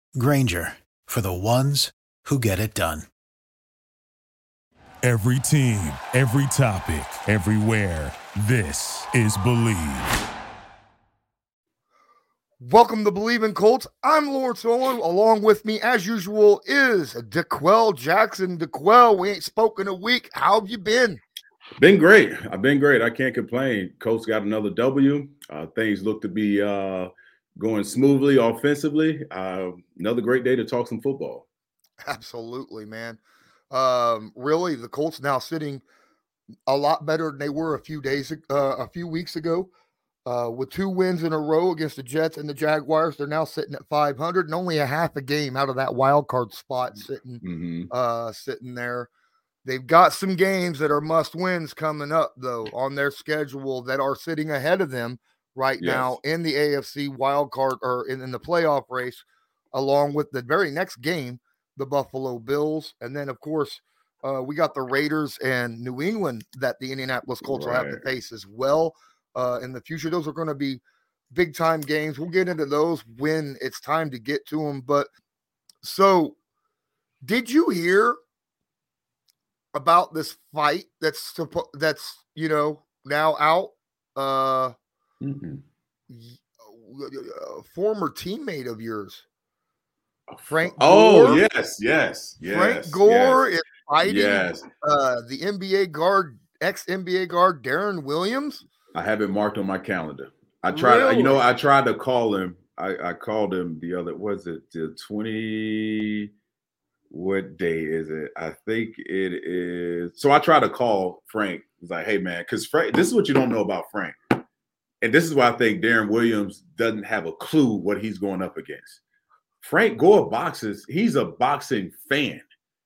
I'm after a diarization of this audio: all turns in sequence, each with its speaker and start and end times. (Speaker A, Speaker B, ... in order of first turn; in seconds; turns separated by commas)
Speaker A: 0.1-3.1, Speaker B: 5.0-10.2, Speaker C: 12.6-21.2, Speaker D: 21.8-31.4, Speaker C: 32.1-33.2, Speaker C: 33.7-35.8, Speaker C: 36.7-39.7, Speaker C: 40.2-49.1, Speaker D: 47.4-47.9, Speaker C: 49.6-70.8, Speaker D: 55.8-56.1, Speaker D: 67.4-68.0, Speaker C: 71.3-75.1, Speaker C: 75.8-76.3, Speaker C: 77.2-78.2, Speaker C: 79.7-84.7, Speaker D: 85.2-85.6, Speaker C: 86.1-89.2, Speaker D: 90.3-93.4, Speaker C: 90.5-91.4, Speaker C: 92.5-98.6, Speaker D: 94.0-94.7, Speaker D: 98.9-106.3, Speaker C: 100.7-101.4, Speaker D: 107.1-114.3, Speaker D: 115.0-119.0, Speaker D: 119.6-122.4